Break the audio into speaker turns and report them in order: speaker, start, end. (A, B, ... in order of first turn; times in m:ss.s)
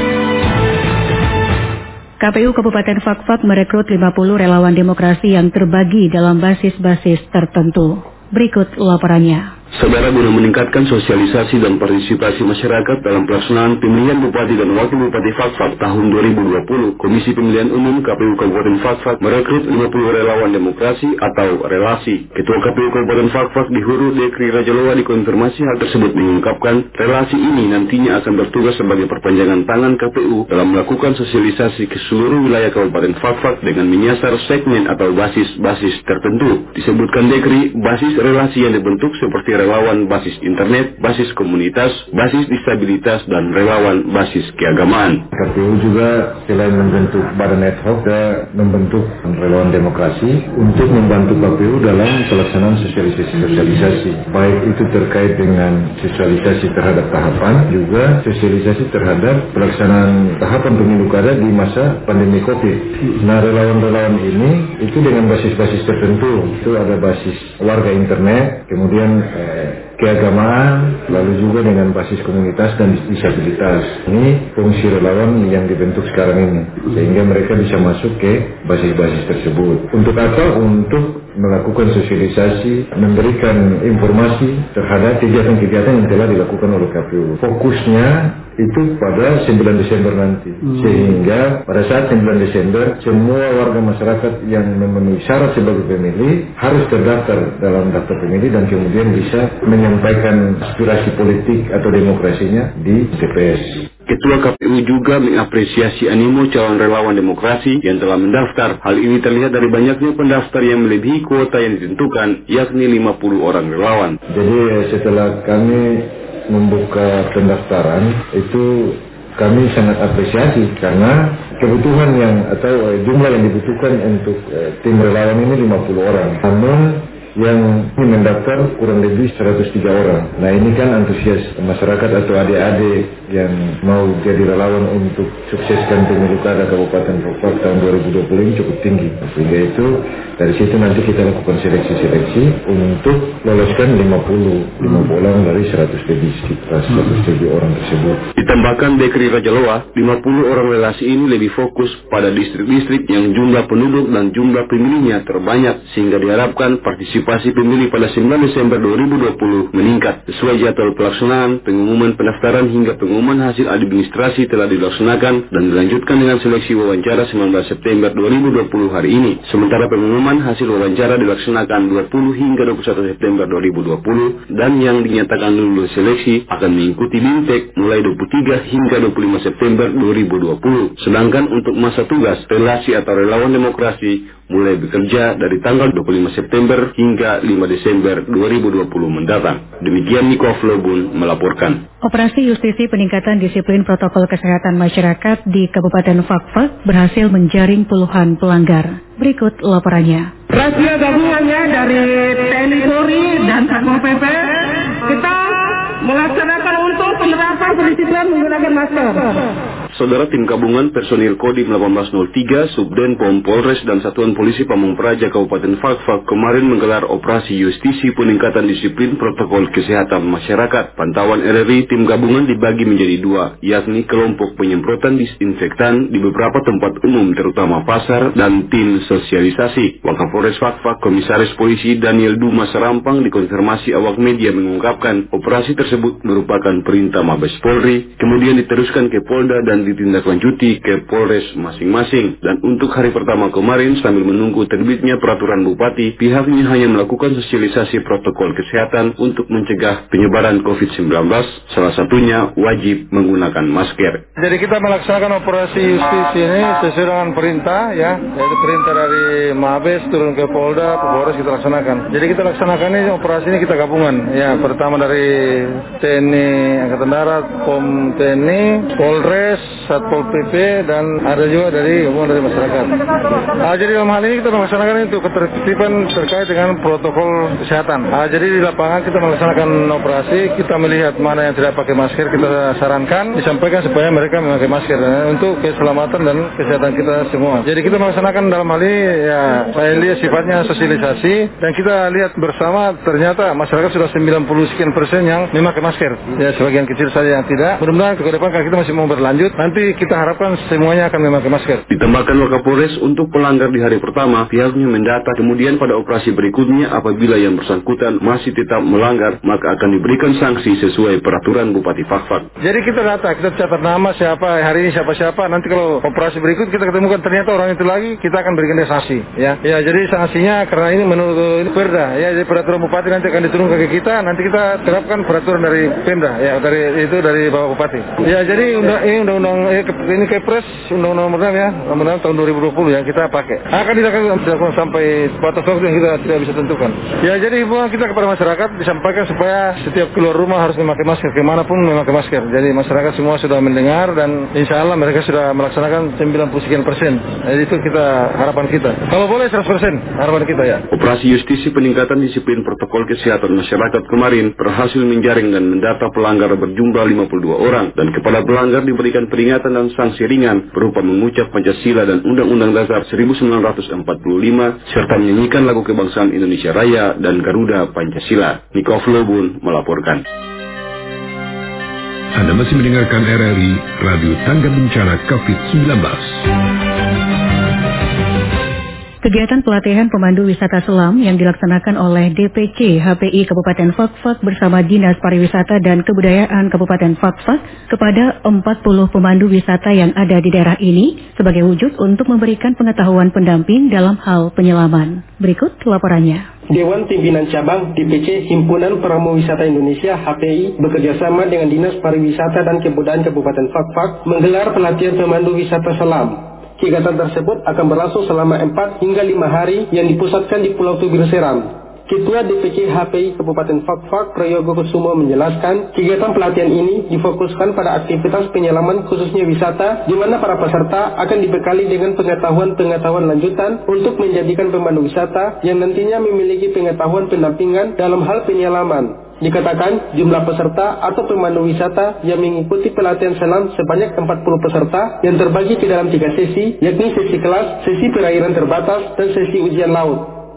0:02.2-0:09.5 A
0:09.8-0:45.3 B
0:45.3-1:43.9 C
1:44.1-1:54.2 B
1:54.3-2:28.3 C
2:28.4-3:11.8 B
3:12.0-3:20.3 A
3:20.5-3:29.4 D
3:29.9-4:14.2 B
4:14.4-4:33.0 E
4:33.6-5:01.8 E
5:01.9-5:12.5 B
5:12.6-5:50.9 E
5:50.9-6:10.2 B
6:12.3-6:16.4 F
6:19.2-6:36.5 A
6:36.7-7:20.3 G